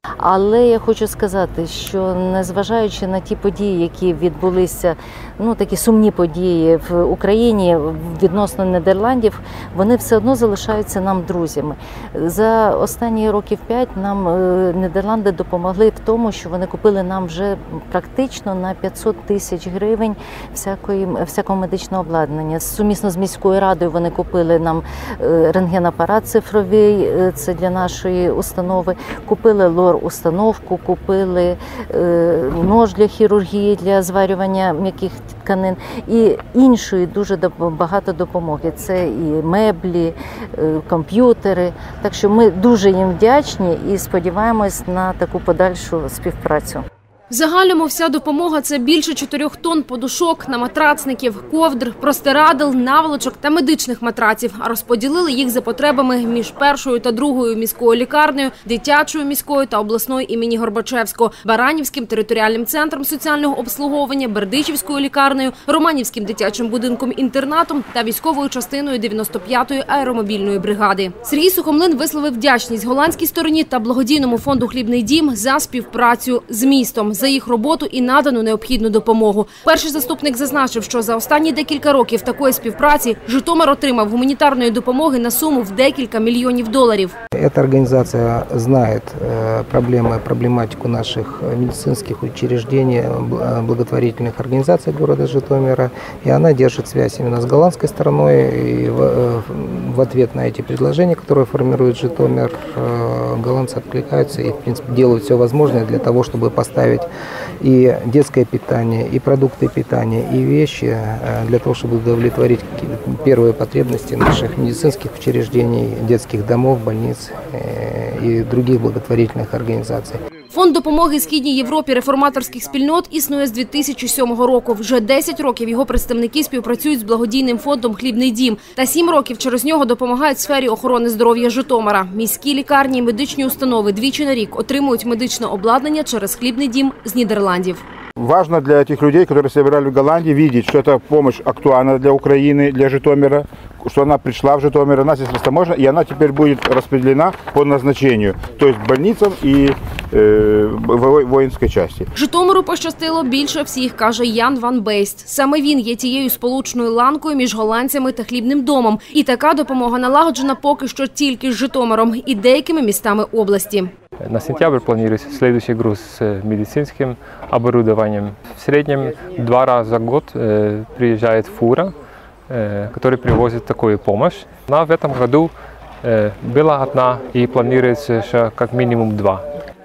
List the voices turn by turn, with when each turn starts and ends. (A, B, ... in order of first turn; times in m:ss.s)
0:00.2-0:46.8 A
0:47.3-1:27.2 B
1:27.4-1:47.1 C
1:47.6-2:00.2 C
2:00.5-2:17.8 B
2:18.2-2:32.1 D
2:32.2-2:43.9 B
2:44.2-2:51.9 E
2:52.5-2:55.5 E
2:56.0-2:59.4 E